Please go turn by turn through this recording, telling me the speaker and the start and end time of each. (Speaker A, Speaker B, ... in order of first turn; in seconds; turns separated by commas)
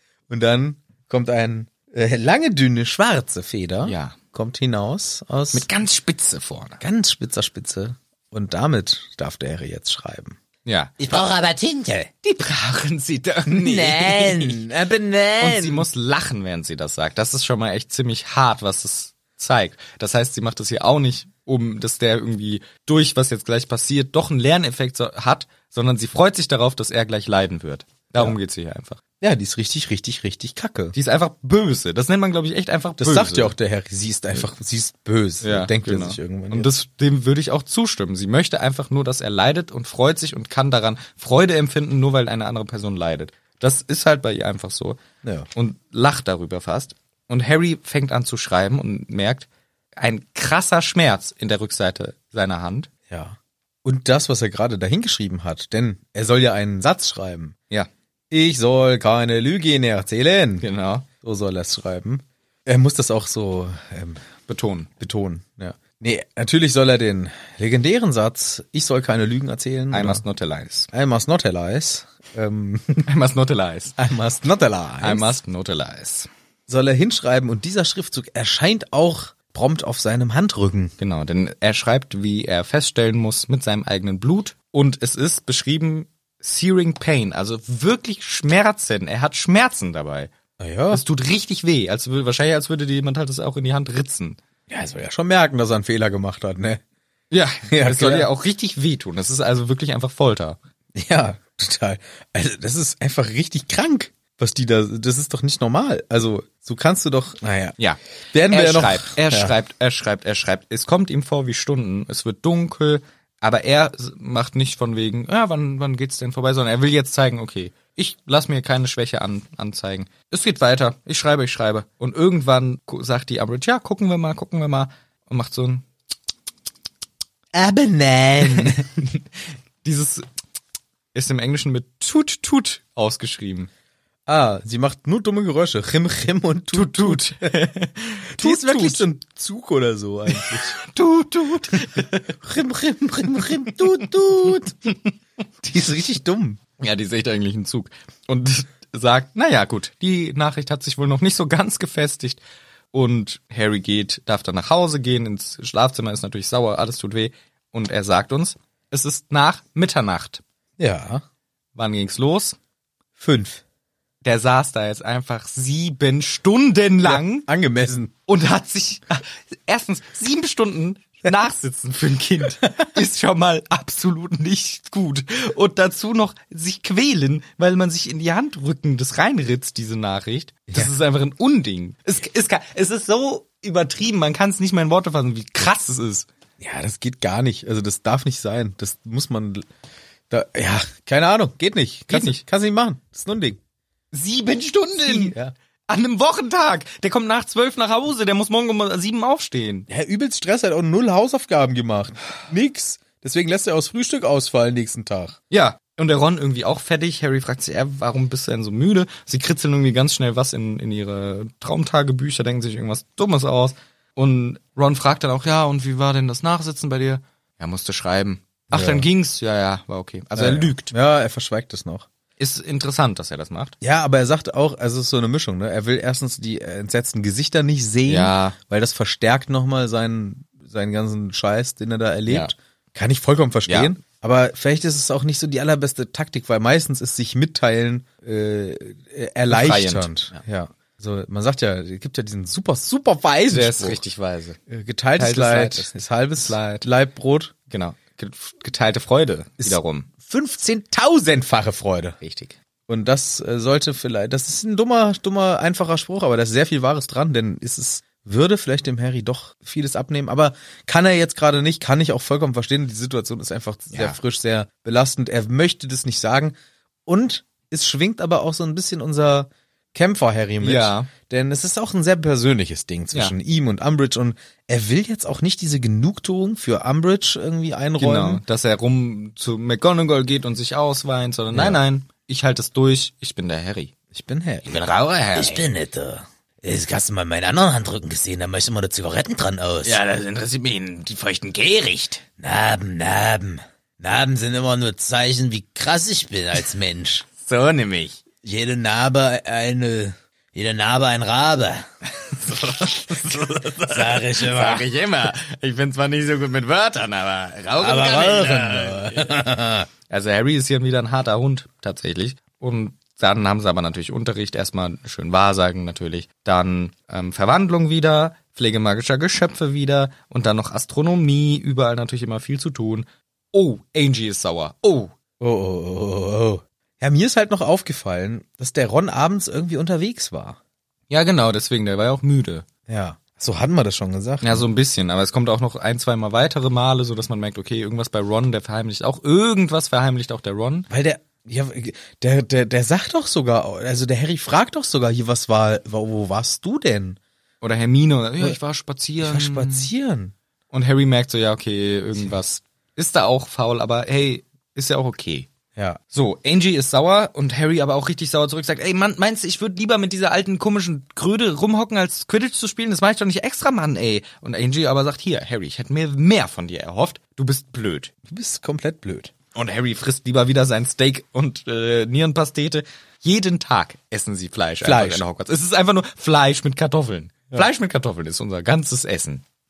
Speaker A: 0.3-5.7, Speaker B: 3.9-4.2, Speaker B: 5.5-6.8, Speaker A: 6.8-10.4, Speaker B: 10.7-11.2, Speaker A: 11.0-12.1, Speaker B: 12.2-14.6, Speaker A: 13.5-15.9, Speaker B: 15.4-29.0, Speaker A: 29.2-30.9, Speaker B: 30.9-33.5, Speaker A: 33.0-36.7, Speaker B: 35.4-45.0, Speaker A: 45.2-45.5, Speaker B: 45.5-52.9, Speaker A: 53.1-57.6, Speaker A: 58.3-60.7, Speaker B: 60.6-61.1, Speaker A: 61.2-64.3, Speaker B: 64.5-64.9, Speaker A: 65.0-70.2, Speaker B: 69.9-70.9, Speaker A: 70.9-73.1, Speaker B: 73.1-74.0, Speaker A: 74.0-75.4, Speaker B: 75.0-76.3, Speaker A: 76.7-80.9, Speaker B: 81.0-90.3, Speaker A: 90.6-91.0, Speaker B: 90.9-94.4, Speaker A: 94.7-96.8, Speaker B: 97.3-100.6, Speaker A: 97.7-98.3, Speaker A: 101.0-107.8, Speaker B: 107.8-125.9, Speaker A: 108.3-109.5, Speaker A: 127.5-129.0, Speaker B: 128.4-128.8, Speaker B: 129.8-130.3, Speaker B: 131.1-133.7, Speaker A: 134.3-137.6, Speaker B: 136.7-139.1, Speaker A: 138.3-140.8, Speaker B: 140.3-142.3, Speaker A: 141.8-144.9, Speaker A: 145.6-146.6, Speaker B: 146.8-152.4, Speaker B: 152.9-160.4, Speaker A: 160.8-161.2, Speaker B: 161.8-162.6, Speaker A: 163.2-163.6, Speaker B: 164.2-167.5, Speaker A: 167.0-168.1, Speaker B: 168.3-186.3, Speaker A: 180.7-180.9, Speaker A: 186.6-189.6, Speaker A: 190.3-193.6, Speaker B: 192.1-192.4, Speaker B: 194.1-195.4, Speaker A: 195.0-195.5, Speaker B: 195.9-199.9, Speaker A: 199.9-205.4, Speaker B: 205.5-220.9, Speaker A: 218.7-219.1, Speaker A: 220.4-222.1, Speaker B: 222.4-223.8, Speaker A: 223.8-244.0, Speaker B: 228.1-228.6, Speaker B: 232.3-232.5, Speaker B: 233.7-233.9, Speaker B: 239.5-240.1, Speaker B: 243.5-244.6, Speaker A: 244.7-247.5, Speaker B: 245.2-246.8, Speaker B: 247.7-250.1, Speaker A: 249.6-252.2, Speaker B: 252.2-252.6, Speaker A: 252.9-278.4, Speaker B: 263.9-264.2, Speaker B: 270.6-271.1, Speaker B: 278.0-283.9, Speaker A: 281.5-281.8, Speaker A: 284.1-284.8, Speaker B: 284.7-285.7, Speaker A: 285.3-290.0, Speaker B: 289.8-292.2, Speaker A: 292.4-297.3, Speaker B: 297.4-298.2, Speaker A: 298.4-301.9, Speaker B: 302.2-309.4, Speaker A: 302.6-304.9, Speaker A: 307.8-309.9, Speaker B: 310.1-325.1, Speaker A: 325.4-330.6, Speaker B: 331.1-332.7, Speaker A: 332.9-334.7, Speaker B: 334.4-340.9, Speaker A: 340.9-347.2, Speaker B: 347.6-349.9, Speaker A: 349.2-350.3, Speaker B: 350.7-355.5, Speaker B: 356.1-368.1, Speaker A: 368.3-369.3, Speaker B: 369.5-379.4, Speaker A: 374.8-375.2